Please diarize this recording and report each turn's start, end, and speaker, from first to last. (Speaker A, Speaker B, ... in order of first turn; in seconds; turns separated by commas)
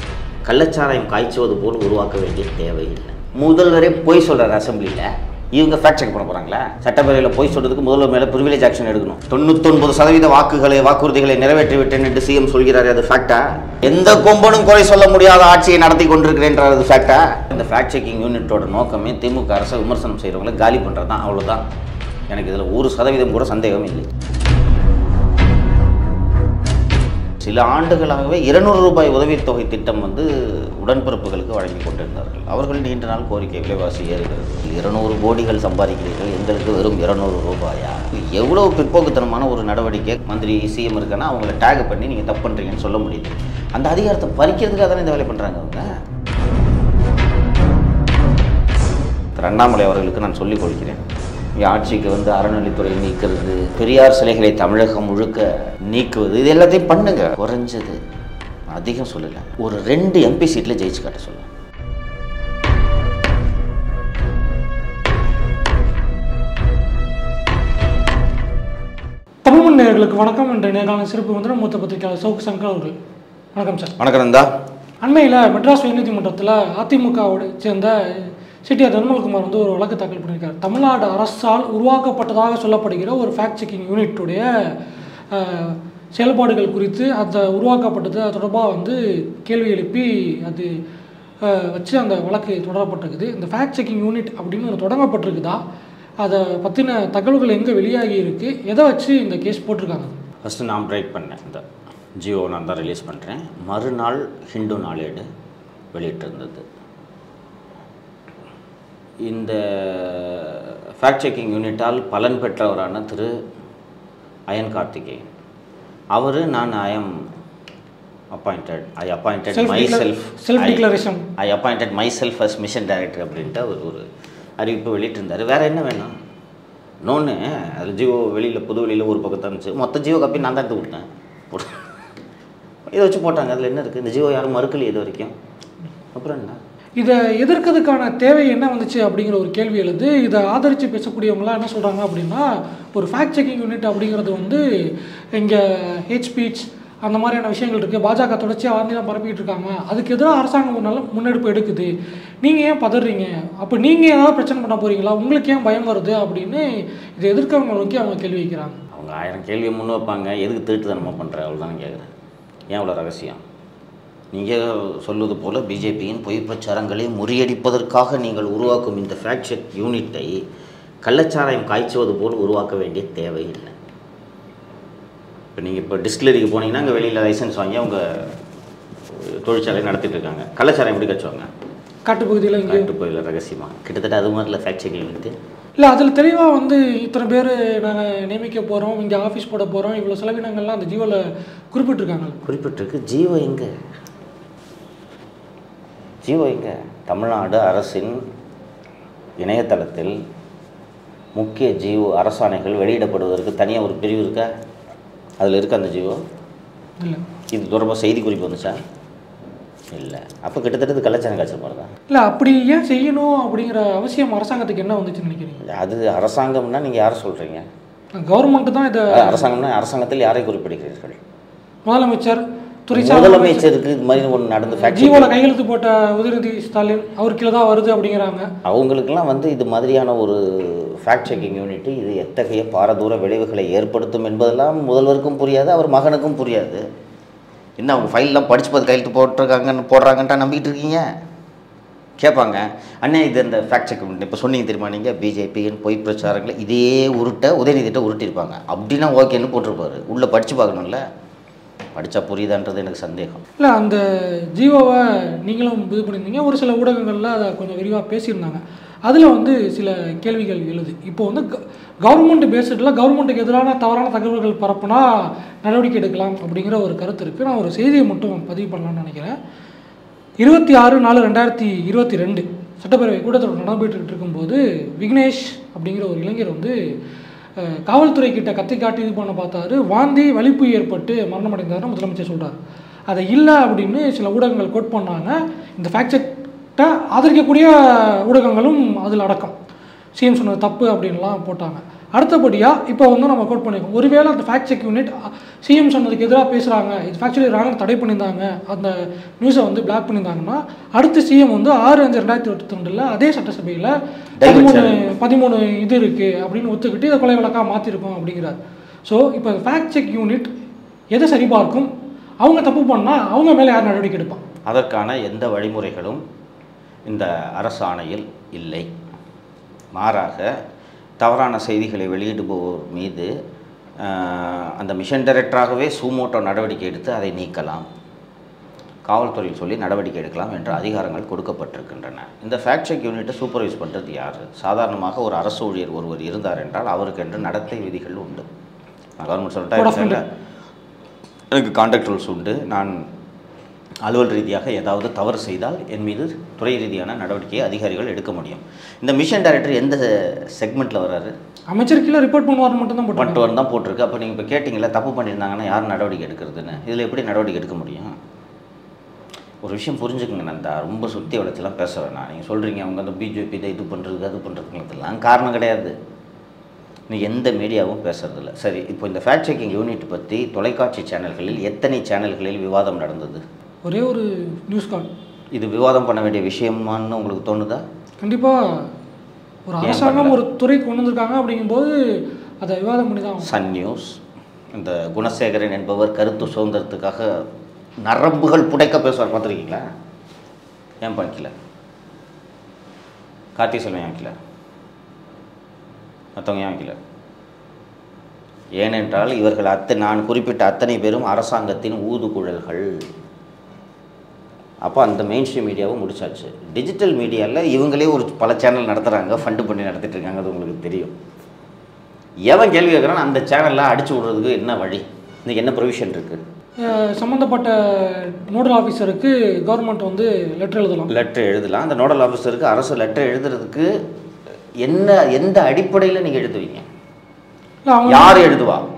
Speaker A: 0.4-21.6, Speaker A: 22.3-24.1, Speaker A: 27.4-45.9, Speaker A: 49.4-51.0, Speaker A: 51.6-58.0, Speaker A: 58.7-61.5, Speaker B: 69.4-73.0, Speaker B: 73.5-74.0, Speaker A: 74.0-74.5, Speaker B: 75.0-84.7, Speaker B: 85.3-90.7, Speaker B: 91.4-95.6, Speaker B: 96.2-100.2, Speaker A: 100.4-101.6, Speaker A: 102.2-105.3, Speaker A: 105.9-106.6, Speaker A: 109.2-113.3, Speaker A: 114.5-115.2, Speaker A: 116.1-117.2, Speaker A: 118.3-120.9, Speaker B: 119.5-121.2, Speaker A: 121.4-124.0, Speaker A: 124.6-126.1, Speaker A: 127.0-131.8, Speaker A: 132.9-135.3, Speaker A: 136.1-136.6, Speaker B: 137.0-158.8, Speaker A: 158.9-162.1, Speaker A: 162.7-163.4, Speaker A: 164.3-170.4, Speaker A: 171.0-173.7, Speaker A: 175.6-178.3, Speaker A: 179.2-181.5, Speaker B: 182.1-182.9, Speaker A: 182.6-185.3, Speaker B: 185.8-192.4, Speaker A: 192.4-193.7, Speaker A: 196.2-198.2, Speaker A: 199.4-200.2, Speaker A: 201.4-204.5, Speaker A: 205.4-206.2, Speaker A: 207.5-208.8, Speaker A: 209.9-211.9, Speaker B: 212.1-215.6, Speaker A: 215.6-217.7, Speaker B: 218.2-219.5, Speaker A: 219.1-221.2, Speaker B: 221.8-223.7, Speaker A: 222.9-225.4, Speaker B: 224.8-228.5, Speaker A: 228.6-236.8, Speaker A: 237.8-241.0, Speaker A: 242.2-251.0, Speaker A: 251.9-253.4, Speaker B: 253.6-254.0, Speaker B: 254.6-269.4, Speaker B: 270.4-276.8, Speaker B: 277.6-282.6, Speaker B: 283.1-289.5, Speaker B: 290.2-310.5, Speaker A: 304.4-305.0, Speaker B: 311.1-311.9, Speaker B: 312.4-314.4, Speaker A: 314.6-316.2, Speaker A: 317.1-318.9, Speaker A: 319.9-320.5, Speaker A: 321.2-323.3, Speaker A: 324.0-327.8, Speaker A: 329.1-338.4, Speaker A: 339.2-340.2, Speaker B: 339.8-340.2, Speaker A: 341.5-343.0, Speaker A: 344.0-351.3, Speaker B: 351.7-353.4, Speaker A: 353.1-358.1, Speaker A: 359.6-365.9, Speaker A: 367.1-373.4, Speaker B: 373.8-375.1, Speaker A: 375.5-377.8, Speaker B: 378.2-378.9, Speaker B: 379.7-383.5, Speaker A: 379.8-380.4, Speaker A: 383.4-384.2, Speaker A: 384.7-387.4, Speaker A: 388.0-389.8, Speaker A: 391.0-391.5, Speaker A: 393.6-394.3, Speaker A: 396.4-397.0, Speaker A: 398.8-403.0, Speaker A: 404.8-411.1, Speaker A: 412.5-416.4, Speaker B: 416.8-421.1, Speaker A: 421.1-423.9, Speaker A: 424.8-426.9, Speaker B: 427.9-428.5, Speaker A: 428.1-428.9